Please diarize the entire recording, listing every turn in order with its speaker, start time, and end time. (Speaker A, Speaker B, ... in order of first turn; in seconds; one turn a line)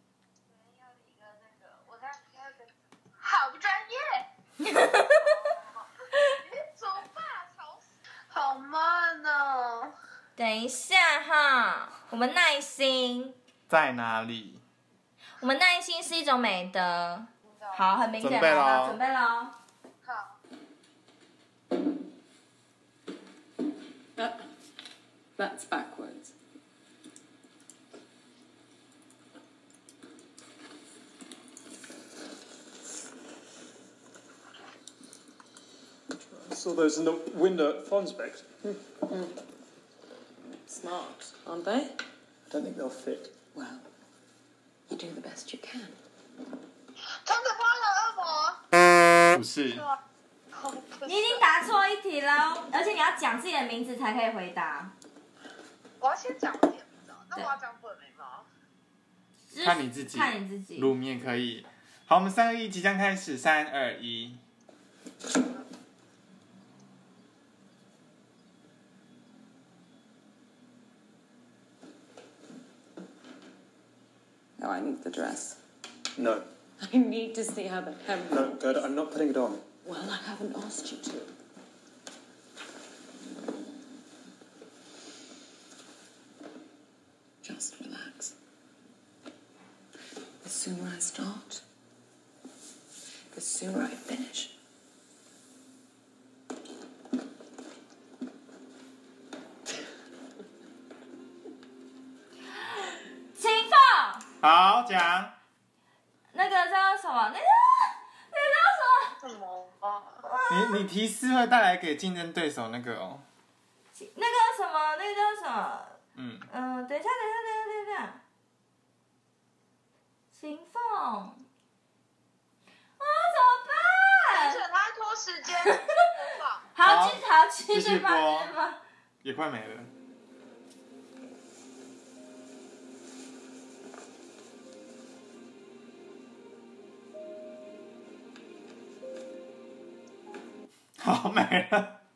Speaker A: 0.5-4.3
Speaker B: 4.6-5.4
Speaker A: 5.2-9.9
Speaker B: 10.4-13.4
Speaker C: 13.7-14.6
Speaker B: 15.4-19.6
Speaker A: 17.4-18.1
Speaker C: 18.2-19.0
Speaker A: 20.0-20.4
Speaker D: 24.2-24.4
Speaker D: 25.4-26.3
Speaker E: 36.3-39.2
Speaker D: 40.7-42.0
Speaker E: 42.5-43.3
Speaker D: 43.5-43.9
Speaker D: 44.9-46.0
Speaker A: 47.2-48.6
Speaker C: 49.3-49.9
Speaker A: 49.7-50.0
Speaker A: 50.5-51.4
Speaker B: 51.0-54.9
Speaker A: 56.0-58.5
Speaker B: 59.5-60.9
Speaker C: 59.6-64.4
Speaker D: 74.6-75.6
Speaker E: 76.2-76.4
Speaker D: 76.8-78.9
Speaker E: 78.3-79.6
Speaker D: 79.8-81.3
Speaker D: 87.4-88.4
Speaker D: 90.4-91.6
Speaker D: 93.3-94.5
Speaker B: 103.4-104.3
Speaker C: 104.4-105.3
Speaker B: 106.3-109.2
Speaker A: 109.2-110.2
Speaker B: 110.2-110.8
Speaker C: 110.5-113.3
Speaker B: 113.9-118.2
Speaker C: 116.1-116.5
Speaker B: 120.3-121.4
Speaker B: 123.0-124.6
Speaker A: 124.3-126.7
Speaker B: 125.6-126.0
Speaker B: 126.7-128.8
Speaker C: 126.8-128.5
Speaker C: 129.2-129.9
Speaker C: 141.0-142.0